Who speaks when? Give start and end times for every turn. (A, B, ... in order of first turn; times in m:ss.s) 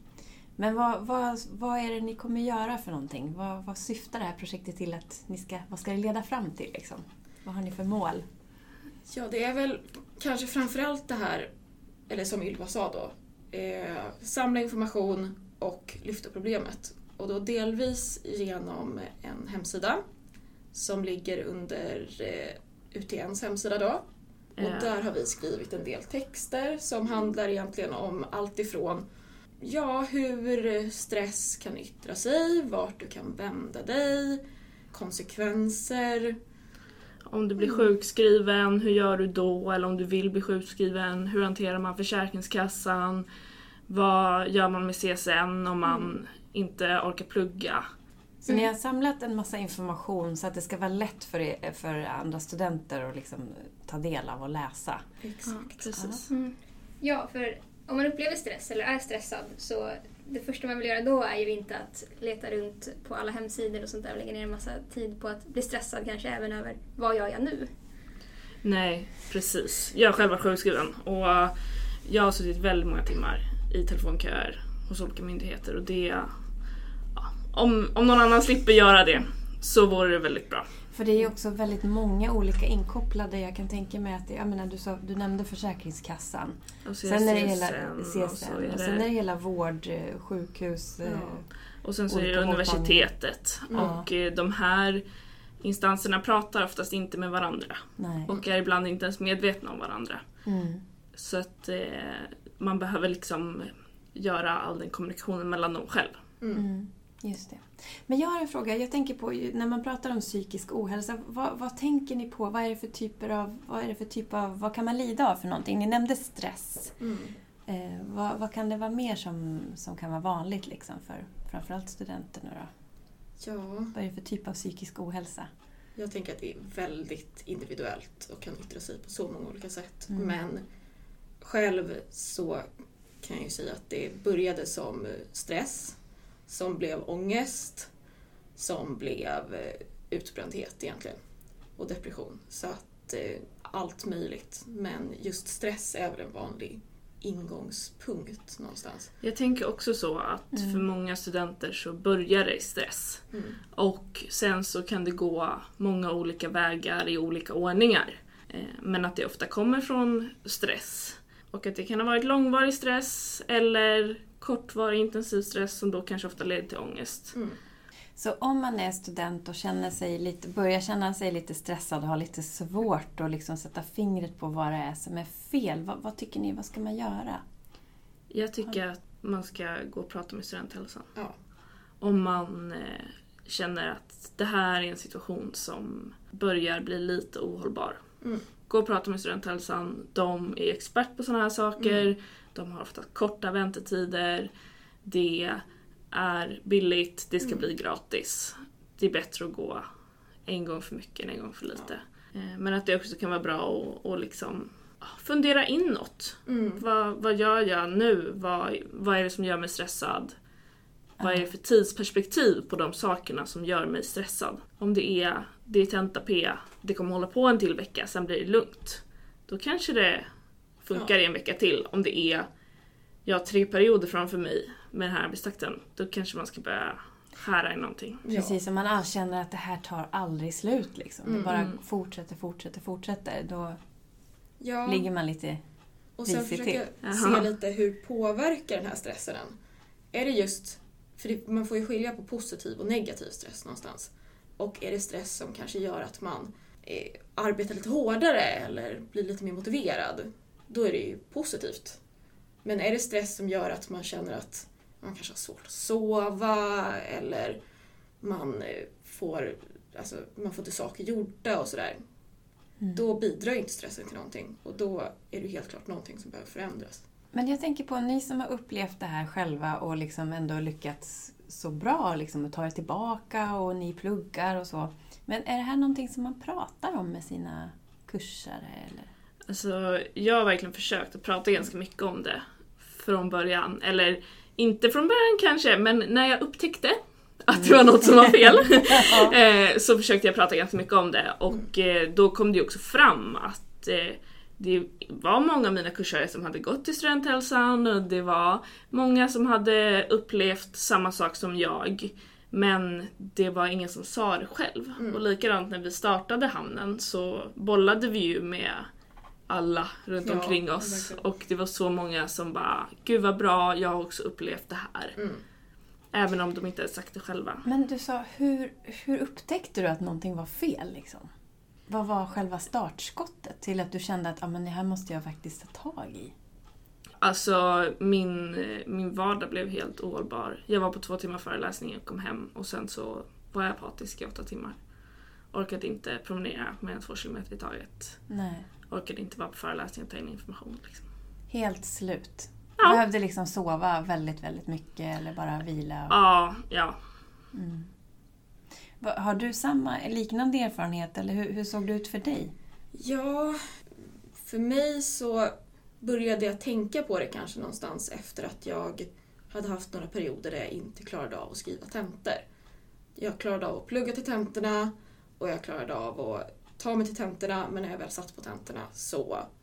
0:00.6-0:08.2 A
0:09.0-0:11.5 B
0:12.1-0:20.0 B
0:20.7-0:24.0 B
0:24.6-0:24.9 C
0:24.6-0:29.1 B
0:29.6-0:36.3 B
0:37.2-0:43.3 C
0:37.6-0:37.9 B
0:43.9-0:47.8 C
0:45.8-0:46.1 B
0:48.4-0:55.0 A
0:55.2-0:55.8 B
0:55.4-0:56.3 C
0:55.9-0:56.2 A
0:56.3-1:07.7 D
1:08.6-1:16.3 C
1:17.1-1:20.7 C
1:20.9-1:31.5 A
1:26.8-1:29.1 C
1:31.0-1:31.4 B
1:31.8-1:35.0 C
1:32.1-1:33.1 A
1:33.7-1:33.9 B
1:33.7-1:34.1 A
1:35.6-1:40.2 C
1:38.0-1:38.3 A
1:40.4-1:40.8 A
1:41.1-1:46.2 C
1:46.5-1:57.0 A
1:57.0-1:57.4 B
1:57.7-2:02.7 A
2:03.4-2:03.9 B
2:03.9-2:05.5 A
2:06.0-2:10.6 B
2:11.4-2:12.6 B
2:13.2-2:16.0 B
2:16.5-2:17.9 B
2:18.6-2:21.2 B
2:21.8-2:29.1 B
2:29.2-2:47.4 C
2:30.5-2:30.8 A
2:33.3-2:33.6 B
2:48.2-2:57.4 A
2:58.3-3:01.1 C
3:02.0-3:08.0 C
3:08.6-3:14.5 C
3:11.8-3:12.1 B
3:15.0-3:19.8 C
3:17.4-3:17.6 B
3:20.4-3:30.3 C
3:26.5-3:26.8 B
3:31.2-3:31.4 A
3:31.2-3:40.3 C
3:40.8-3:42.5 C
3:43.2-3:48.2 C
3:48.2-3:48.6 B
3:48.3-3:53.8 A
3:51.2-3:51.6 B
3:51.5-3:51.8 C
3:54.6-3:55.0 B
3:54.8-3:55.6 A
3:56.2-3:59.5 B
3:56.2-3:56.8 A
3:57.0-3:57.5 C
4:00.1-4:12.0 B
4:12.6-4:17.6 B
4:18.2-4:22.0 B
4:23.0-4:27.0 B
4:27.3-4:39.1 A
4:39.5-5:08.9 C
4:47.5-4:49.4 A
5:09.5-5:15.2 C
5:10.2-5:11.2 B
5:15.2-5:15.4 B
5:16.1-5:17.6 C
5:17.6-5:21.3 A
5:21.9-5:26.3 A
5:27.2-5:34.8 C
5:35.5-5:38.3 C
5:38.3-5:38.6 A
5:38.9-5:41.0 C
5:41.5-5:46.2 A
5:46.1-5:47.0 C
5:47.5-5:47.9 A
5:49.0-5:52.5 A
5:52.9-5:53.6 B
5:54.3-6:02.4 B
6:03.2-6:09.5 B